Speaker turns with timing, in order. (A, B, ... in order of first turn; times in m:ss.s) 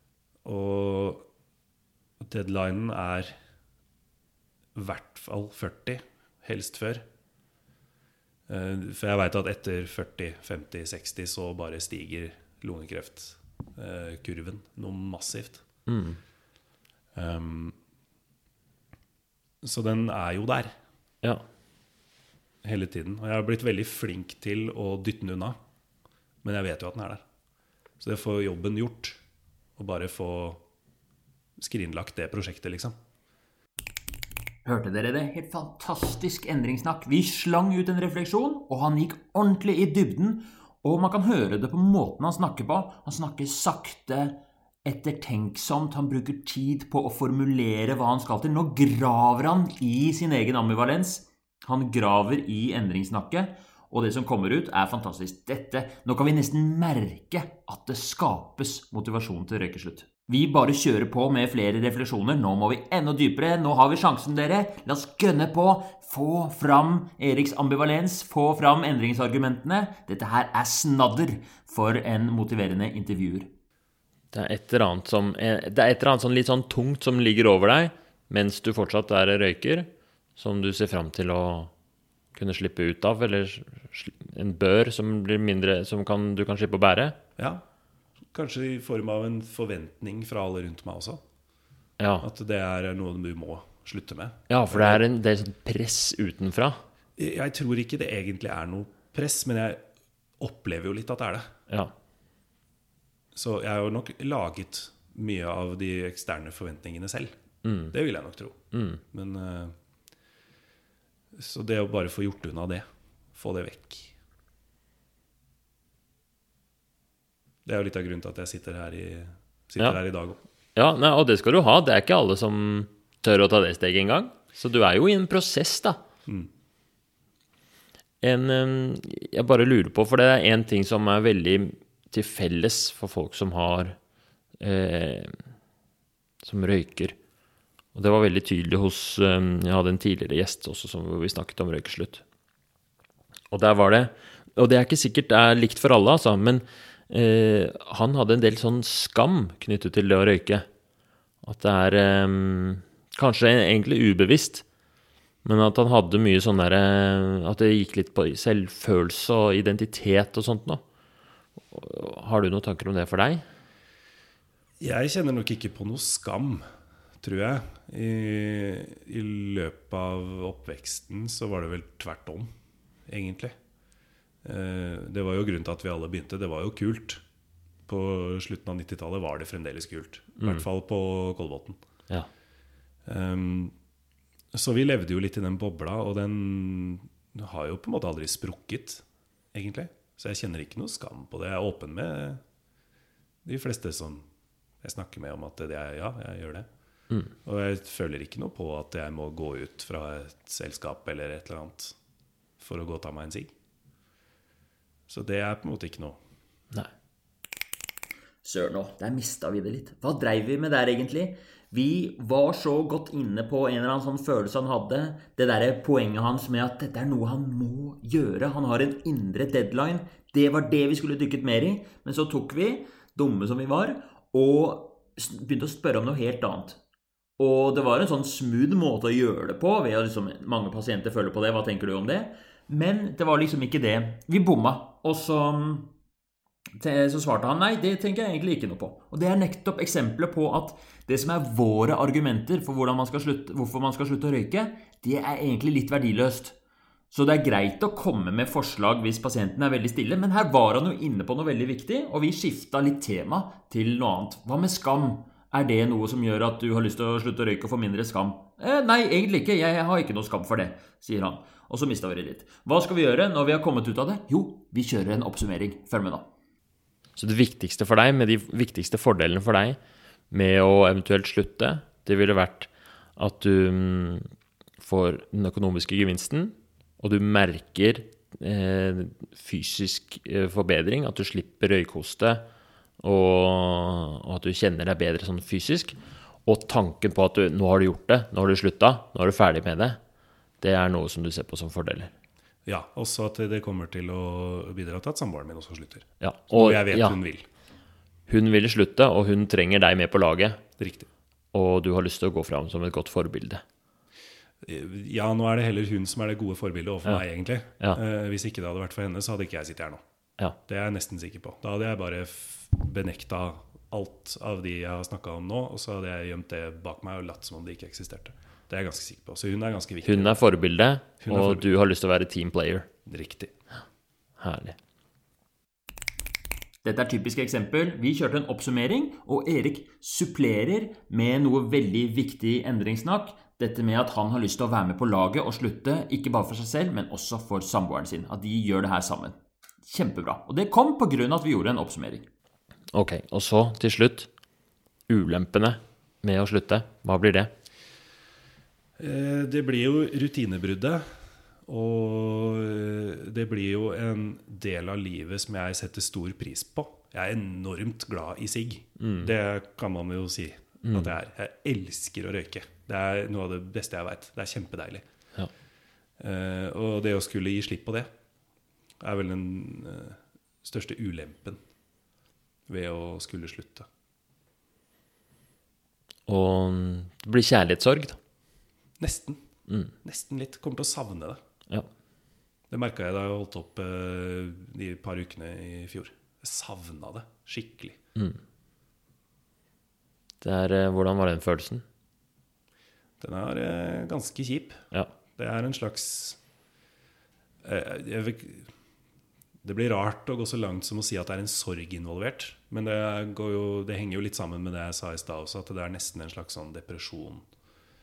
0:00.4-0:01.3 A
0:02.2-0:03.3 A
0:04.8-0:07.0 A
0:08.5-0:15.6 A
0:15.9-0:16.2 B
0:17.2-0:17.8 A
0:19.6-0:20.7 A
0:22.6-0:25.6 A
0:26.4-0:27.2 A
0:28.0-0:29.2 A
0:29.8-0:30.6 A
0:31.6-0:33.0 A
0:34.6-1:13.5 C
1:14.3-1:21.7 B
1:22.4-1:27.2 B
1:27.4-1:27.6 A
1:28.3-1:31.2 A
1:32.0-1:32.3 B
1:32.2-1:35.0 A
1:34.5-1:36.8 B
1:37.2-1:39.8 A
1:40.4-1:41.5 A
1:43.3-1:47.3 A
1:47.6-1:47.9 B
1:47.9-1:49.8 A
1:48.7-1:49.0 B
1:51.3-1:54.1 A
1:57.6-2:00.4 A
2:00.8-2:06.0 B
2:08.2-2:14.0 B
2:14.6-2:15.4 B
2:16.4-2:17.2 B
2:18.0-2:22.2 B
2:23.5-2:30.7 B
2:31.4-2:34.6 B
2:35.4-2:40.8 B
2:41.7-2:43.4 B
2:44.8-2:46.6 A
2:47.2-2:52.5 A
2:53.1-2:53.6 A
2:54.4-2:57.2 A
2:57.9-3:01.8 A
3:03.0-3:03.7 A
3:04.5-3:12.4 A
3:13.4-3:14.3 A
3:14.8-3:16.7 A
3:17.4-3:22.0 A
3:22.6-3:23.5 A
3:25.1-3:26.2 A
3:28.4-3:46.8 C
3:47.4-3:55.9 C
3:56.8-4:06.6 C
4:07.1-4:26.3 C
4:27.2-4:29.8 B
4:30.3-4:34.3 B
4:34.8-4:42.4 B
4:43.0-4:50.0 B
4:50.6-4:52.1 B
4:52.7-4:57.5 A
4:56.2-4:57.2 B
4:58.3-5:00.6 B
5:00.8-5:01.1 A
5:01.5-5:03.6 B
5:04.6-5:10.0 A
5:10.7-5:20.3 A
5:20.0-5:22.9 B
5:21.2-5:21.7 A
5:23.1-5:23.5 A
5:24.4-5:24.8 B
5:26.8-5:42.2 C
5:42.9-5:44.3 B
5:45.1-5:47.5 B
5:49.0-5:51.0 A
5:51.7-6:05.0 A
5:59.0-5:59.3 B
6:00.8-6:01.1 B
6:06.2-6:08.1 A
6:09.0-6:11.6 A
6:12.7-6:13.9 A
6:16.3-6:18.2 B
6:19.0-6:19.4 A
6:20.0-6:21.4 A
6:22.7-6:28.0 A
6:30.4-6:31.8 B
6:33.2-6:34.8 A
6:35.4-6:36.4 A
6:37.6-6:38.7 A
6:39.6-6:47.5 A